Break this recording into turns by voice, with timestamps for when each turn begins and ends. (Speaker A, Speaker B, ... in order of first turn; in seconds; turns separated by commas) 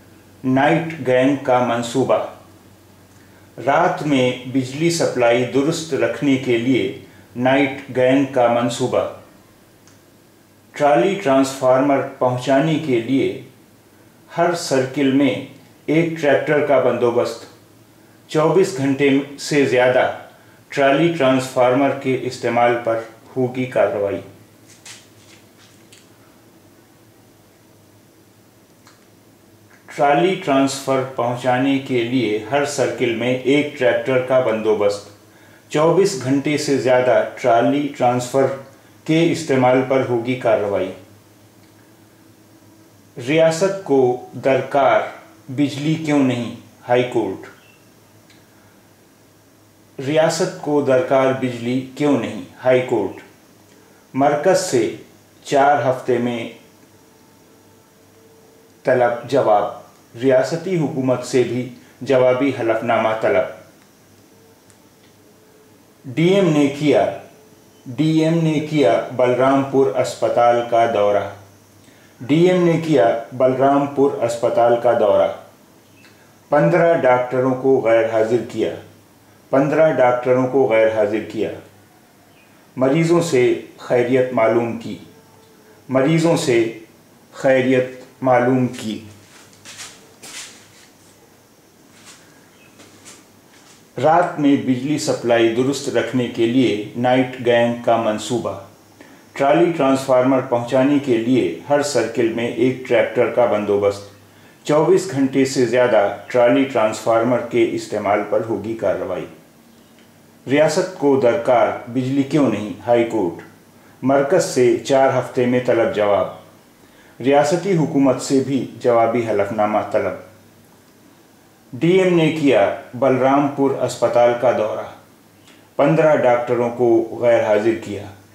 Speaker A: 0.4-2.3, Speaker A: 3.6-9.1, Speaker A: 10.7-13.4, Speaker A: 14.3-17.5, Speaker A: 18.3-20.2, Speaker A: 20.7-24.2, Speaker A: 29.9-35.1, Speaker A: 35.7-41.0, Speaker A: 43.2-47.5, Speaker A: 50.0-53.2, Speaker A: 54.1-56.5, Speaker A: 58.8-63.5, Speaker A: 66.1-67.2, Speaker A: 67.9-71.3, Speaker A: 72.2-75.3, Speaker A: 76.5-78.8, Speaker A: 79.5-81.6, Speaker A: 82.8-85.0, Speaker A: 85.9-86.8, Speaker A: 87.3-89.0, Speaker A: 94.0-98.6, Speaker A: 99.3-104.1, Speaker A: 104.6-109.3, Speaker A: 110.5-113.5, Speaker A: 114.0-116.4, Speaker A: 117.2-120.2, Speaker A: 121.7-124.9, Speaker A: 125.8-128.1